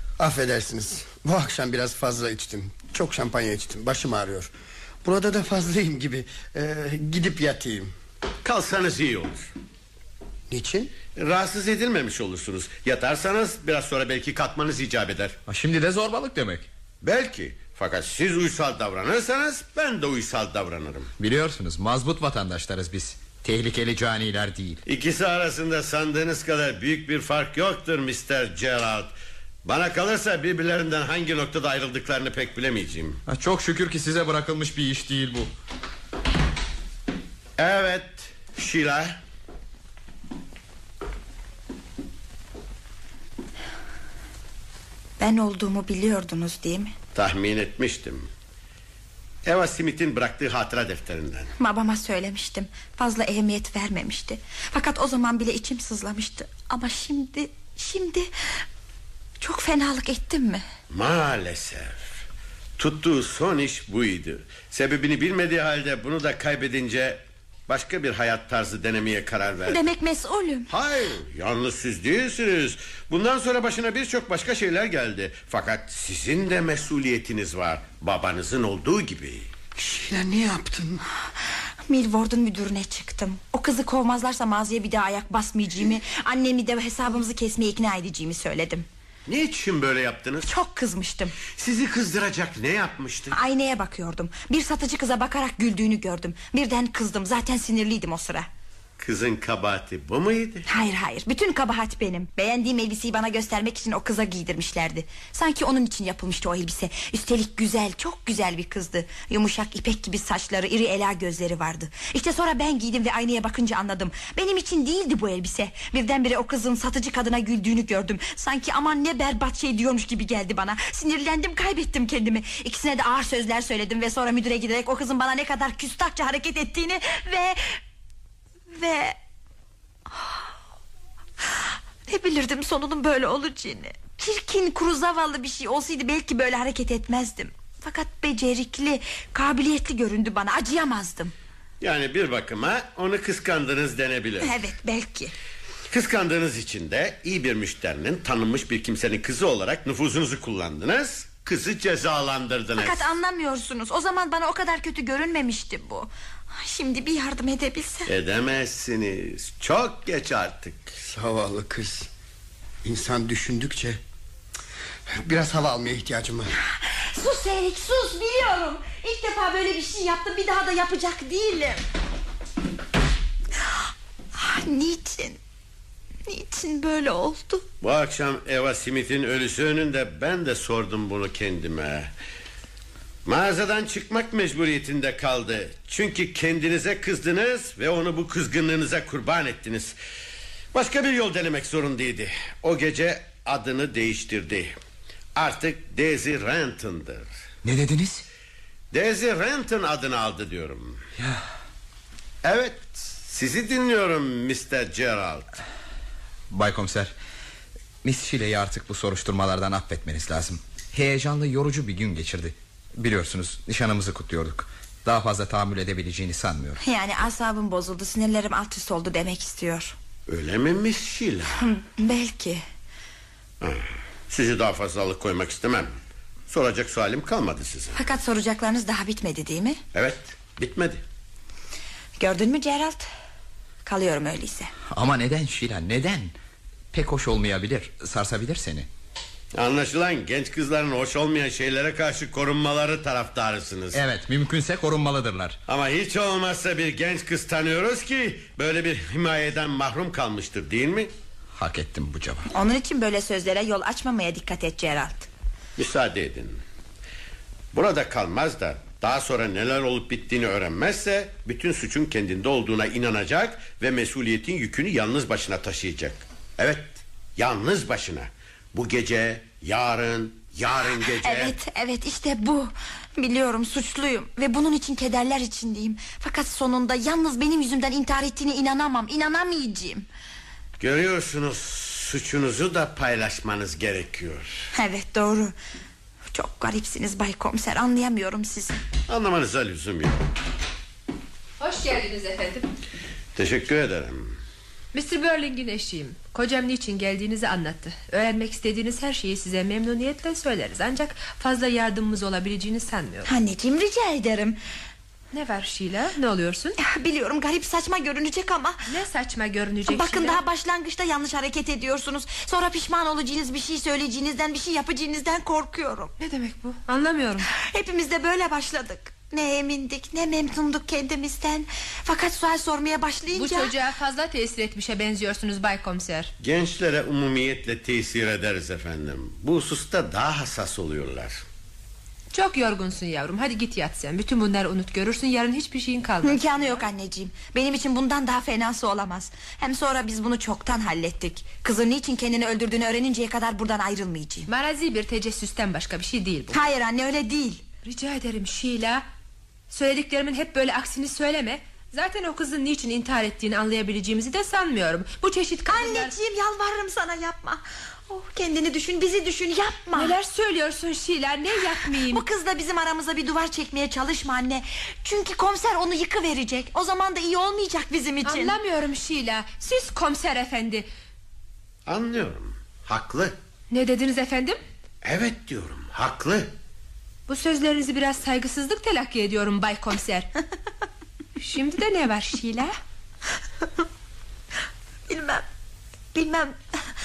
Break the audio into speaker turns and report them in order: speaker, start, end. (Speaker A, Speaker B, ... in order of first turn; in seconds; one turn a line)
Speaker A: 0.2-4.5
Speaker A: 5.0-7.9
Speaker B: 8.4-9.5
Speaker A: 10.5-10.9
Speaker B: 11.2-15.4
Speaker C: 15.5-16.7
Speaker B: 17.0-21.1
Speaker C: 21.2-24.8
Speaker B: 24.9-29.1
Speaker B: 29.6-33.2
Speaker C: 33.3-35.5
Speaker B: 37.6-39.2
Speaker D: 45.2-46.9
Speaker B: 47.1-48.3
Speaker B: 49.5-51.5
Speaker D: 51.6-58.3
Speaker D: 59.4-60.6
Speaker B: 60.9-62.0
Speaker B: 62.8-69.8
Speaker D: 69.7-70.7
Speaker B: 70.7-79.5
Speaker A: 79.8-81.0
Speaker D: 81.9-88.9
Speaker B: 89.3-90.5
Speaker D: 90.5-91.3
Speaker B: 91.5-93.4
Speaker D: 93.3-98.5
Speaker B: 99.0-100.7
Speaker D: 100.7-127.8
Speaker D: 128.7-129.2
Speaker D: 130.1-130.5
Speaker D: 131.4-141.3
Speaker B: 141.8-144.5
Speaker D: 144.4-145.3
Speaker B: 145.9-153.1
Speaker D: 152.8-158.1
Speaker B: 158.1-161.0
Speaker A: 161.1-162.1
Speaker A: 162.8-164.0
Speaker A: 165.1-166.5
Speaker D: 166.8-171.8
Speaker D: 174.3-175.4
Speaker D: 176.3-177.6
Speaker B: 177.8-182.1
Speaker B: 183.2-190.0
Speaker B: 190.7-194.8
Speaker B: 195.4-197.3
Speaker C: 197.6-198.3
Speaker B: 198.9-201.0
Speaker C: 201.2-201.4
Speaker B: 202.4-205.5
Speaker C: 206.5-207.1
Speaker C: 208.0-216.8
Speaker D: 216.8-219.9
Speaker B: 220.3-221.6
Speaker D: 221.6-222.6
Speaker B: 223.6-226.0
Speaker B: 226.5-228.0
Speaker D: 227.9-229.8
Speaker B: 229.9-231.0
Speaker D: 232.2-233.1
Speaker D: 233.8-234.7
Speaker C: 234.9-236.3
Speaker C: 236.9-238.9
Speaker B: 239.5-244.0
Speaker C: 243.9-245.6
Speaker B: 245.7-251.1
Speaker C: 251.5-252.5
Speaker D: 252.5-255.3
Speaker B: 255.8-256.6
Speaker B: 257.7-271.6
Speaker D: 271.2-280.1
Speaker B: 280.8-284.7
Speaker D: 284.7-285.6
Speaker D: 286.3-288.8
Speaker B: 289.1-290.3
Speaker E: 291.6-292.7
Speaker B: 293.4-294.3
Speaker E: 294.9-303.3
Speaker D: 303.3-304.6
Speaker E: 305.3-306.8
Speaker D: 306.8-308.8
Speaker E: 308.9-310.4
Speaker D: 309.9-316.1
Speaker E: 316.2-317.5
Speaker D: 317.4-323.7
Speaker E: 323.4-326.3
Speaker B: 326.4-331.4
Speaker E: 332.3-336.8
Speaker D: 336.2-344.5
Speaker E: 344.5-346.6
Speaker D: 346.5-347.6
Speaker E: 347.9-349.1
Speaker E: 349.7-356.1
Speaker D: 355.7-360.2
Speaker E: 359.9-362.2
Speaker D: 361.8-368.6
Speaker E: 368.2-370.9
Speaker B: 371.9-373.4
Speaker E: 373.7-374.6
Speaker B: 375.0-376.5
Speaker E: 377.3-380.3
Speaker E: 381.4-382.7
Speaker D: 385.1-385.4
Speaker D: 386.1-386.6